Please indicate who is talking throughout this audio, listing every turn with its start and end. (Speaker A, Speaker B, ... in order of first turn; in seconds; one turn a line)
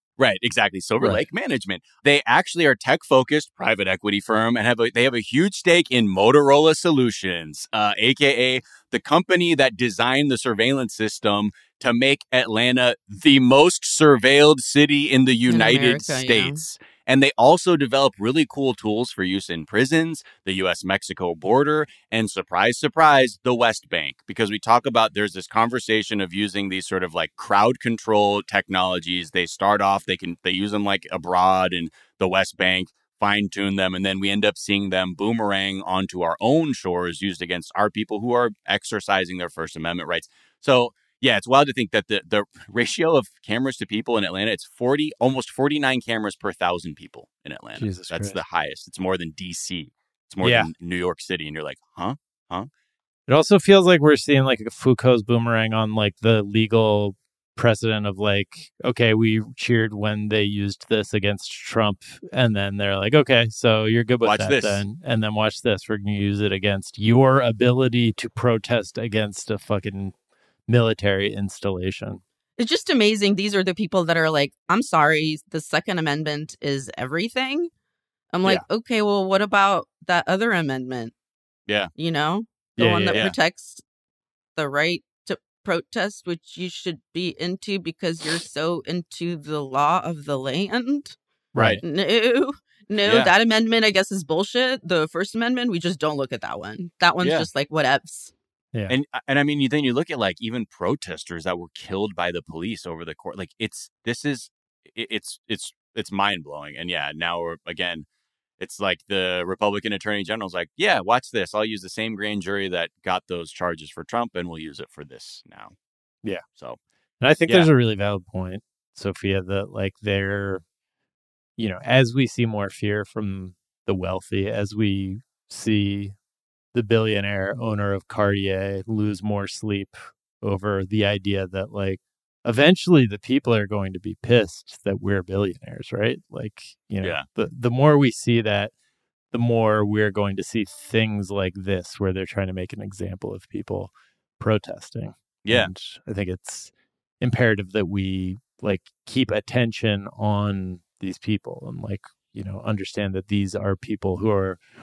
Speaker A: 0.2-52.7
Speaker B: 15.5-16.6
Speaker C: 47.8-48.4
Speaker C: 50.4-50.7
Speaker C: 53.3-70.1
Speaker A: 64.2-64.8
Speaker C: 70.7-72.2
Speaker B: 72.6-77.7
Speaker B: 78.3-81.1
Speaker B: 82.0-83.8
Speaker C: 82.8-83.3
Speaker B: 84.6-91.2
Speaker C: 91.5-91.8
Speaker B: 91.8-98.3
Speaker A: 93.0-93.3
Speaker A: 97.2-97.5
Speaker A: 98.9-108.1
Speaker A: 108.6-115.7
Speaker A: 116.5-116.8
Speaker C: 117.2-120.6
Speaker C: 121.6-126.2
Speaker C: 126.7-138.7
Speaker C: 139.3-154.6
Speaker A: 145.4-145.7